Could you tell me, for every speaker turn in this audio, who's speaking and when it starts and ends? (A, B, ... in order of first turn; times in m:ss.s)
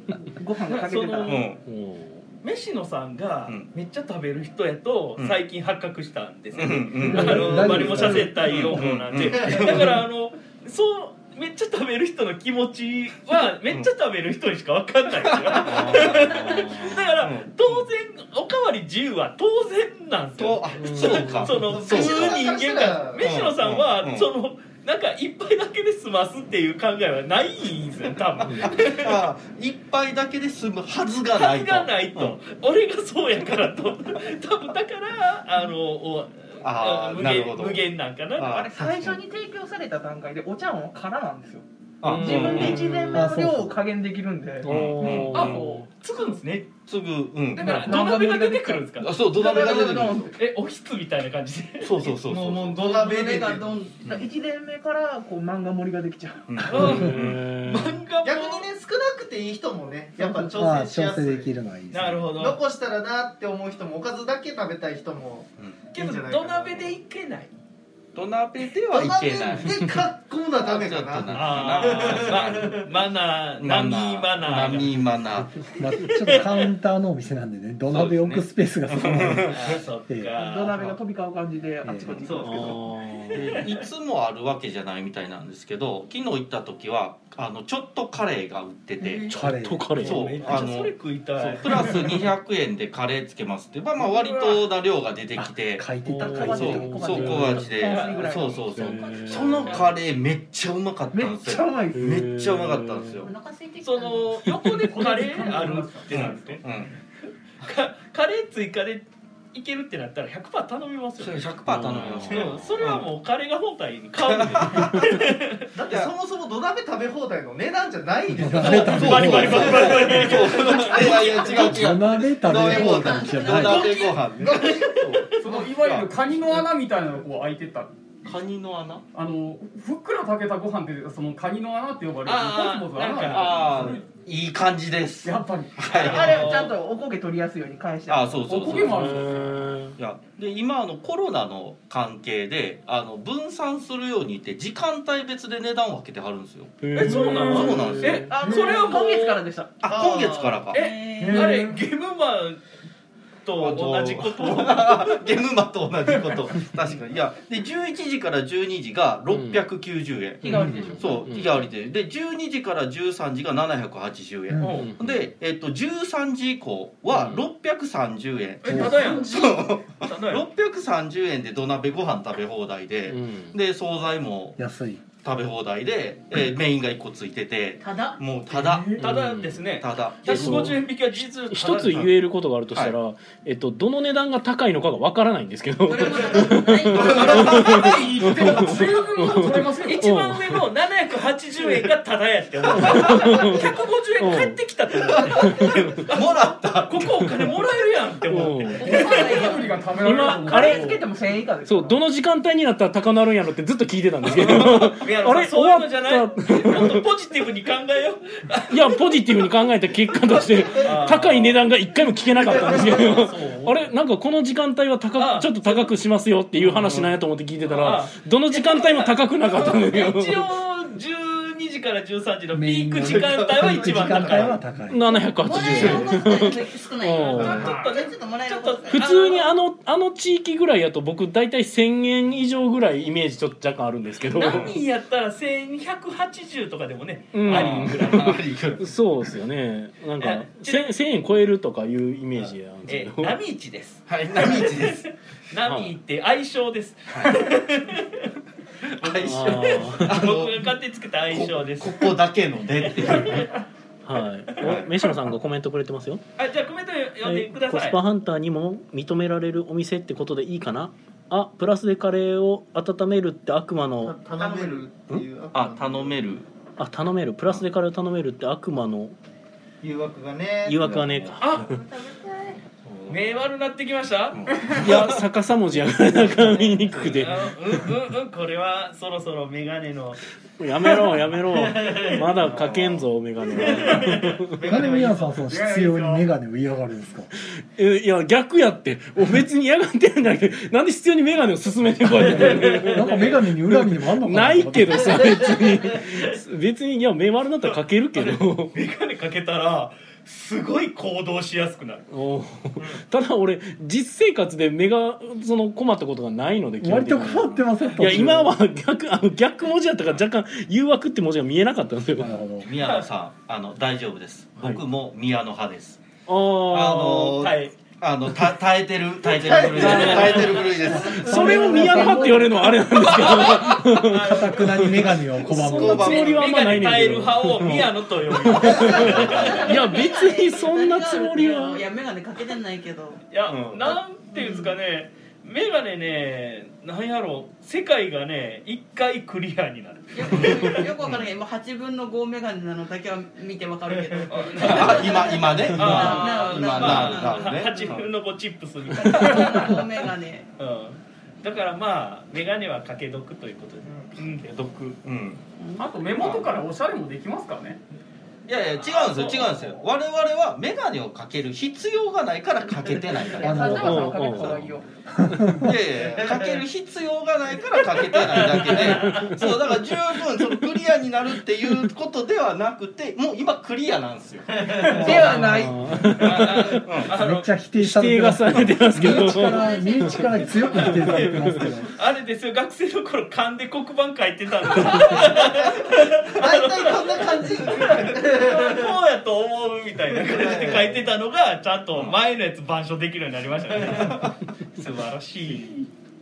0:00.3-0:01.4 A
0:00.7-0:01.5 B
0:01.2-0:01.6 C
0:01.6-0:02.2 D
0:02.4-0:29.3 B
0:06.6-0:10.0 C
0:07.0-0:08.4 E
0:09.3-0:09.9 F
0:15.3-0:17.9 C
0:15.6-0:17.0 D
0:20.4-0:22.4 C
0:20.8-0:21.6 D
0:21.6-0:23.3 F
0:23.2-0:24.3 C
0:28.4-0:28.7 D
0:28.6-0:32.4 C
0:31.3-0:38.6 B
0:36.6-0:37.8 C
0:38.4-0:39.2 C
0:38.4-0:46.4 A
0:42.0-0:43.0 C
0:42.0-0:43.4 D
0:43.1-0:43.8 E
0:44.6-0:45.9 D
0:44.6-0:45.7 C
0:45.3-0:46.4 B
0:46.4-0:48.0 C
0:47.5-0:50.4 A
0:47.6-0:52.0 B
0:47.6-0:47.9 D
0:49.0-0:50.3 C
0:51.8-0:52.8 C
0:52.0-0:53.8 F
0:52.8-0:56.5 A
0:53.0-0:53.9 G
0:56.5-0:57.4 C
0:56.6-0:58.7 B
0:56.7-0:58.0 D
0:58.2-1:01.5 F
1:00.2-1:00.7 A
1:00.6-1:02.3 E
1:01.9-1:02.6 B
1:02.3-1:06.9 F
1:05.6-1:05.9 C
1:05.9-1:07.5 B
1:08.1-1:10.0 C
1:08.9-1:12.9 F
1:10.6-1:12.8 C
1:11.3-1:15.0 B
1:13.6-1:16.0 C
1:15.4-1:19.6 E
1:16.1-1:16.6 B
1:17.9-1:19.8 C
1:19.5-1:20.9 B
1:20.3-1:22.8 A
1:21.8-1:22.3 E
1:22.1-1:22.8 F
1:22.4-1:23.6 D
1:23.3-1:35.9 C
1:29.3-1:30.6 D
1:29.3-1:29.9 E
1:30.0-1:32.3 B
1:34.0-1:34.7 B
1:35.3-1:37.6 E
1:36.0-1:39.0 A
1:36.1-1:37.7 D
1:36.4-1:43.3 C
1:37.8-1:38.2 B
1:38.7-1:39.7 D
1:38.9-1:39.9 G
1:39.6-1:39.9 B
1:41.1-1:42.2 A
1:41.9-1:43.2 D
1:43.2-1:44.6 G
1:43.8-1:46.9 B
1:44.8-1:46.6 H
1:46.1-1:46.9 C
1:47.6-1:51.5 B
1:51.2-1:53.1 C
1:51.7-1:52.5 D
1:52.3-1:55.6 B
1:54.2-1:55.2 C
1:55.7-2:01.9 F
1:55.9-1:56.1 C
1:58.4-1:59.7 E
1:58.4-2:06.6 C
1:58.6-2:01.0 B
2:00.9-2:01.7 G
2:01.5-2:04.0 E
2:02.4-2:04.2 G
2:04.3-2:05.3 F
2:05.4-2:07.9 H
2:08.2-2:09.0 C
2:09.1-2:14.1 H
2:12.2-2:13.9 B
2:13.3-2:16.7 C
2:15.2-2:15.9 H
2:15.9-2:16.7 B
2:16.0-2:18.7 A
2:18.1-2:19.2 C
2:18.4-2:19.6 H
2:18.6-2:20.0 D
2:20.0-2:28.4 C
2:26.8-2:28.3 D
2:26.9-2:29.4 B
2:28.1-2:29.8 A
2:28.4-2:29.0 H
2:29.8-2:30.8 C
2:29.9-2:30.6 F
2:30.7-2:31.5 G
2:30.7-2:32.6 B
2:31.2-2:31.8 H
2:33.4-2:35.2 B
2:33.6-2:54.6 C
2:39.3-2:39.6 D
2:40.4-2:41.3 A
2:40.6-2:40.9 E
2:40.7-2:41.6 D
2:44.5-2:44.9 E
2:44.6-2:44.9 B
2:44.8-2:45.2 D
2:47.1-2:47.4 D
2:48.6-2:50.4 B
2:48.7-2:48.9 E
2:48.9-2:49.6 A
2:49.0-2:49.3 H
2:53.1-2:53.6 D
2:54.6-2:55.0 E
2:55.2-2:59.0 C
2:57.8-2:58.2 G
2:58.5-2:59.0 H
2:59.0-3:02.1 B
2:59.0-2:59.6 D
2:59.8-3:00.8 C
3:00.2-3:00.8 D
3:01.5-3:10.6 D
3:05.8-3:08.0 G
3:07.0-3:07.9 C
3:07.0-3:08.9 B
3:07.1-3:10.0 H
3:09.8-3:19.6 B
3:12.7-3:14.6 D
3:15.1-3:15.4 C
3:16.0-3:17.1 C
3:18.3-3:18.9 D
3:18.8-3:20.8 H
3:18.8-3:22.0 A
3:19.1-3:19.4 G
3:20.0-3:20.9 D
3:20.3-3:21.0 B
3:21.6-3:27.0 D
3:24.3-3:29.4 B
3:28.7-3:40.4 D
3:30.6-3:31.6 B
3:32.5-3:33.8 B
3:35.2-3:35.9 B
3:36.6-3:37.1 C
3:37.6-3:44.6 B
3:42.5-3:45.0 E
3:43.5-3:44.6 F
3:44.9-3:47.7 D
3:45.0-3:49.4 G
3:47.2-3:49.5 B
3:47.4-3:47.9 H
3:48.9-3:54.8 D
3:54.3-3:58.4 B
3:57.3-4:03.4 D
3:57.4-3:59.3 C
4:00.2-4:00.9 B
4:02.9-4:08.3 B
4:04.1-4:05.0 C
4:05.6-4:05.9 D
4:07.1-4:07.4 C
4:08.9-4:10.7 C
4:09.0-4:12.2 B
4:09.2-4:10.2 D
4:11.3-4:13.5 C
4:12.7-4:13.6 B
4:14.0-4:16.2 D
4:14.6-4:14.9 C
4:16.4-4:18.0 B
4:17.2-4:24.1 D
4:24.0-4:26.2 F
4:24.4-4:24.8 A
4:25.5-4:26.5 C
4:26.8-4:29.2 D
4:29.8-4:31.0 F
4:30.6-4:31.8 D
4:30.8-4:31.4 C
4:31.4-4:31.7 B
4:31.5-4:32.6 G
4:32.8-4:33.4 C
4:33.1-4:34.4 B
4:34.3-4:35.2 C
4:34.7-4:37.6 D
4:36.5-4:37.2 F
4:36.9-4:37.3 C
4:37.2-4:40.2 B
4:40.6-4:44.5 D
4:41.5-4:43.0 F
4:43.5-4:44.4 B
4:44.5-4:45.4 F
4:44.6-4:47.3 E
4:45.4-4:46.3 H
4:47.7-4:58.7 D
4:52.2-4:55.2 E
4:52.8-4:53.3 B
4:58.2-5:02.0 B
5:02.1-5:12.4 D
5:06.8-5:08.6 E
5:12.2-5:12.7 E
5:12.6-5:16.0 C
5:12.8-5:13.1 B
5:16.3-5:17.3 D
5:16.7-5:21.7 C
5:17.1-5:17.7 B
5:19.3-5:20.6 F
5:19.4-5:21.0 B
5:19.7-5:31.8 D
5:21.0-5:22.5 E
5:21.4-5:22.5 A
5:22.9-5:25.2 B
5:24.0-5:26.3 E
5:25.5-5:26.5 C
5:25.8-5:29.8 B
5:28.6-5:33.2 G
5:33.3-5:40.9 B
5:34.3-5:34.7 G
5:40.1-5:47.7 G
5:40.3-5:41.2 C
5:43.9-5:44.4 F
5:44.3-5:49.9 B
5:44.6-5:48.1 C
5:49.0-5:50.5 G
5:50.6-5:54.5 B
5:53.9-5:54.1 F
5:54.4-5:55.4 C
5:55.6-5:55.9 G
5:55.8-5:57.8 H
5:56.2-5:56.5 C
5:58.5-6:04.7 C
5:58.8-5:59.7 B
6:02.8-6:03.3 F
6:03.3-6:04.9 A
6:03.4-6:04.0 E
6:03.7-6:04.6 D
6:05.2-6:05.7 E
6:05.2-6:05.6 D
6:05.5-6:15.4 C
6:05.9-6:06.6 F
6:07.9-6:09.6 B
6:08.5-6:09.6 D
6:14.5-6:15.4 F
6:14.9-6:16.1 A
6:15.0-6:15.3 E
6:15.4-6:16.8 D
6:16.2-6:17.5 B
6:16.8-6:17.1 C
6:17.1-6:21.9 E
6:17.8-6:19.7 D
6:19.0-6:21.0 G
6:20.6-6:35.9 B
6:21.0-6:21.6 D
6:25.1-6:29.0 F
6:30.2-6:30.8 F